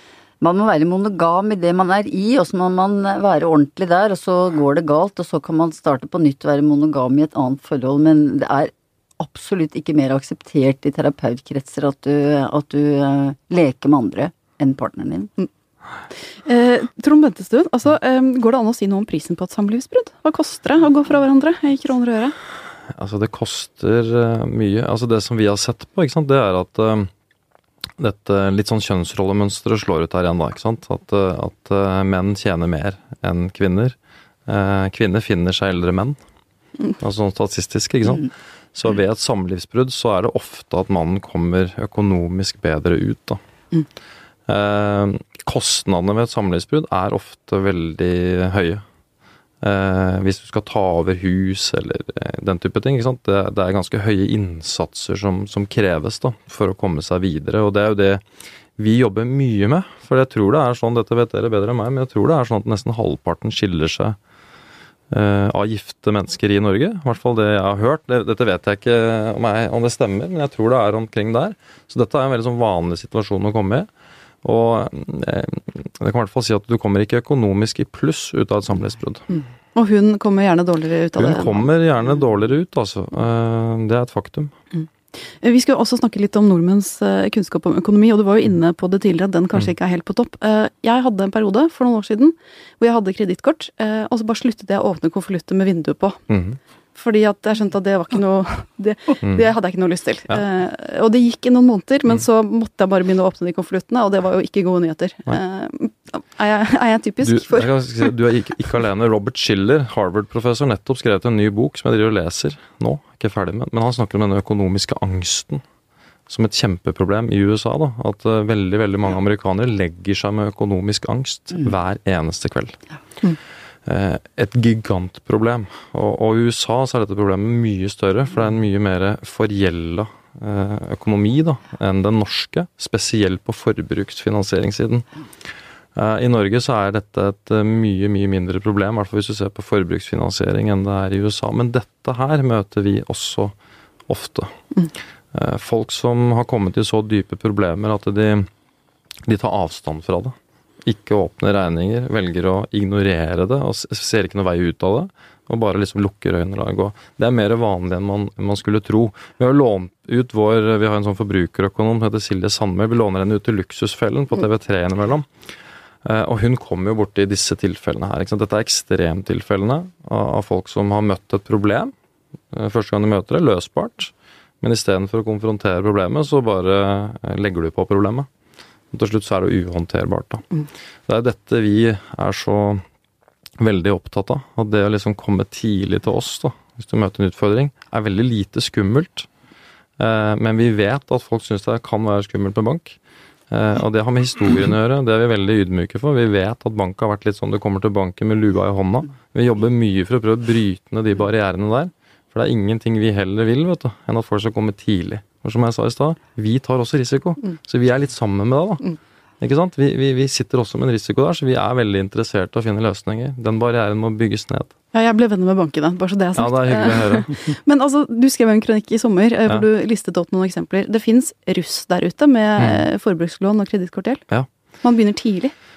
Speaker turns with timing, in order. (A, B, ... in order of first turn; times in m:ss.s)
0:00.4-0:15.3 A
0:16.3-0:22.4 B
0:22.9-0:27.1 C
0:28.0-0:34.0 C
0:34.5-0:36.2 C
0:37.0-0:43.4 C
0:44.5-0:48.8 C
0:49.6-0:58.2 C
0:58.8-1:04.2 C
1:05.1-1:13.9 C
1:14.4-1:19.3 C
1:19.8-1:21.7 B
1:21.2-1:24.5 C
1:24.7-1:36.2 B
1:36.3-1:36.6 C
1:37.0-1:47.7 B
1:47.2-1:55.6 C
1:56.3-2:02.8 C
2:03.9-2:15.1 C
2:16.0-2:23.5 C
2:24.1-2:24.5 C
2:25.3-2:28.5 C
2:29.3-2:45.3 C
2:46.0-2:51.9 C
2:52.5-2:58.3 C
2:58.9-3:00.5 C
3:01.1-3:02.8 C
3:03.6-3:09.3 C
3:10.0-3:13.0 C
3:13.5-3:34.7 C
3:34.9-3:44.2 B
3:36.4-3:37.3 C
3:42.6-3:42.8 C
3:44.8-3:45.5 B